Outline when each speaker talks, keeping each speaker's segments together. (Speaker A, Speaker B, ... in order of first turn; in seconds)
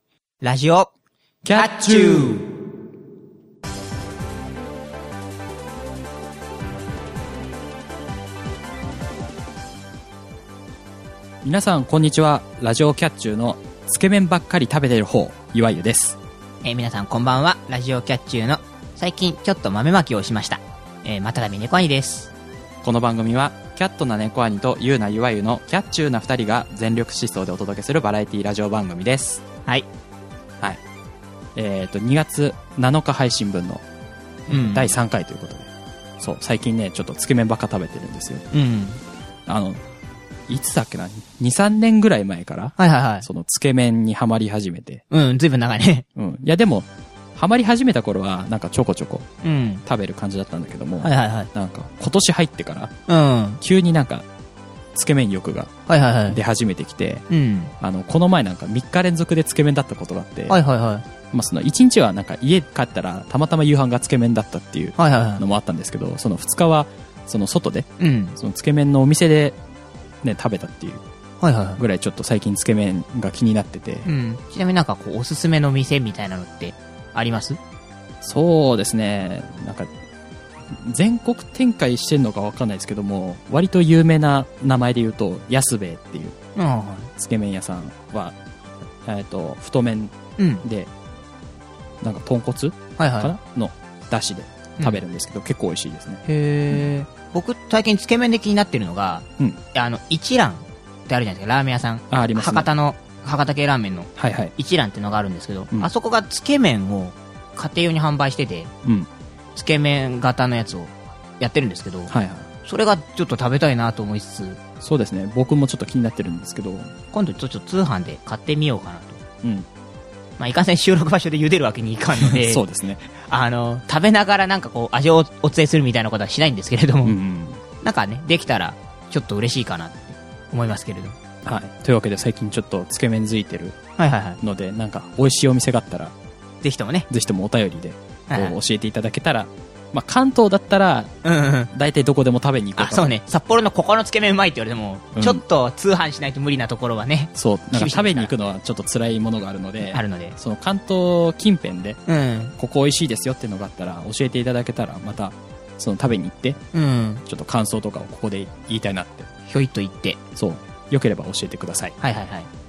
Speaker A: 0.4-0.9, 1.5-2.5, 16.6-22.3, 34.5-34.9, 38.5-39.0, 42.8-43.2, 45.1-46.0, 49.4-49.8, 51.0-51.5, 53.1-53.6, 55.9-56.4, 57.3-57.7, 60.5-61.0, 65.0-65.4, 68.0-68.4, 71.4-71.8, 74.0-77.6, 86.5-87.1, 90.4-90.6, 93.0-93.3, 96.2-108.7, 109.5-112.1, 112.6-114.6, 117.1-119.2, 120.4-122.6, 123.2-127.1, 127.8-131.2, 134.0-134.4, 136.6-137.1, 138.3-138.6, 141.2-141.7, 142.8-148.3, 149.9-150.3, 152.1-152.5, 156.7-157.2, 159.5-160.2, 162.0-162.5
Speaker B: 1.4-2.3, 11.4-16.2, 22.8-29.4, 31.5-33.8, 34.5-38.4, 39.5-39.8, 40.5-45.0, 46.1-49.3, 49.8-52.9, 53.6-54.2, 54.9-55.7, 56.3-57.2, 57.8-60.6, 61.3-69.5, 70.2-71.0, 71.8-74.1, 78.2-79.9, 80.7-86.3, 87.2-88.3, 89.0-90.9, 92.0-96.9, 102.1-102.7, 104.2-104.5, 112.1-112.5, 114.8-116.9, 122.2-123.1, 127.0-127.6, 131.4-133.8, 134.4-136.1, 137.1-141.1, 141.7-143.1, 145.2-145.4, 147.3-152.0, 152.6-156.6, 157.2-159.3, 160.3-161.9